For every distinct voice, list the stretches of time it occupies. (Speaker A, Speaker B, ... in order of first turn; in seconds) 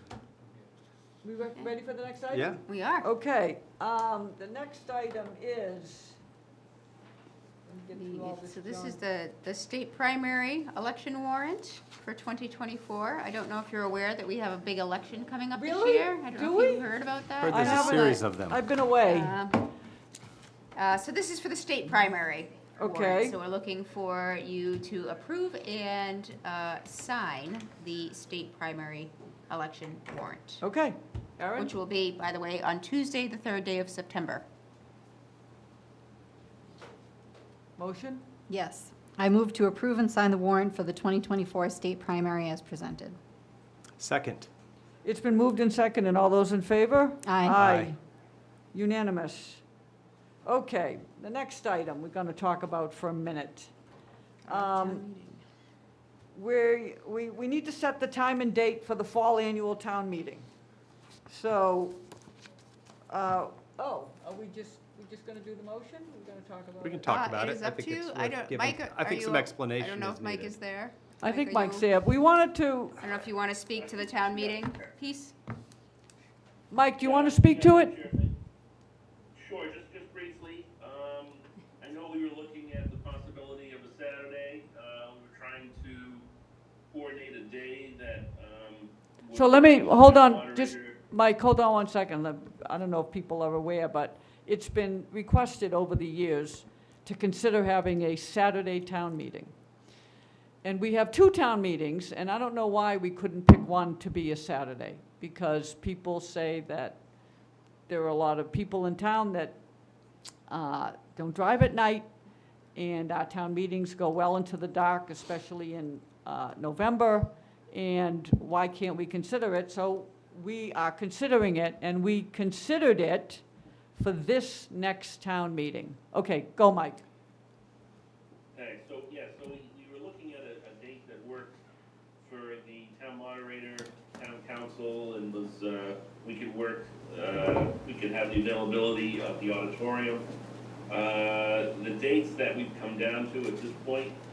Speaker A: 1.2-6.2, 7.7-9.0, 15.5-19.4, 22.8-23.4, 30.6-31.8, 37.8-38.2, 45.0-48.0, 48.7-49.6, 50.4-53.7, 54.5-55.0, 56.3-60.5, 61.3-62.0, 63.1-67.2, 71.2-73.0, 76.7-78.0, 89.3-99.5, 100.6-107.0, 107.9-109.6, 110.5-112.1, 112.7-127.0
Speaker B: 2.3-2.6, 17.4-18.6, 44.0-44.5, 47.6-47.9, 66.8-70.6
Speaker C: 2.7-3.1, 7.9-18.2, 19.0-19.7, 20.8-30.6, 31.6-34.4, 54.5-55.2, 67.1-71.9, 73.0-75.3
Speaker D: 38.5-43.2, 47.2-47.6
Speaker E: 73.8-74.6, 77.0-78.3, 79.3-86.2, 86.9-91.0, 128.5-131.6, 132.2-140.2, 140.9-144.2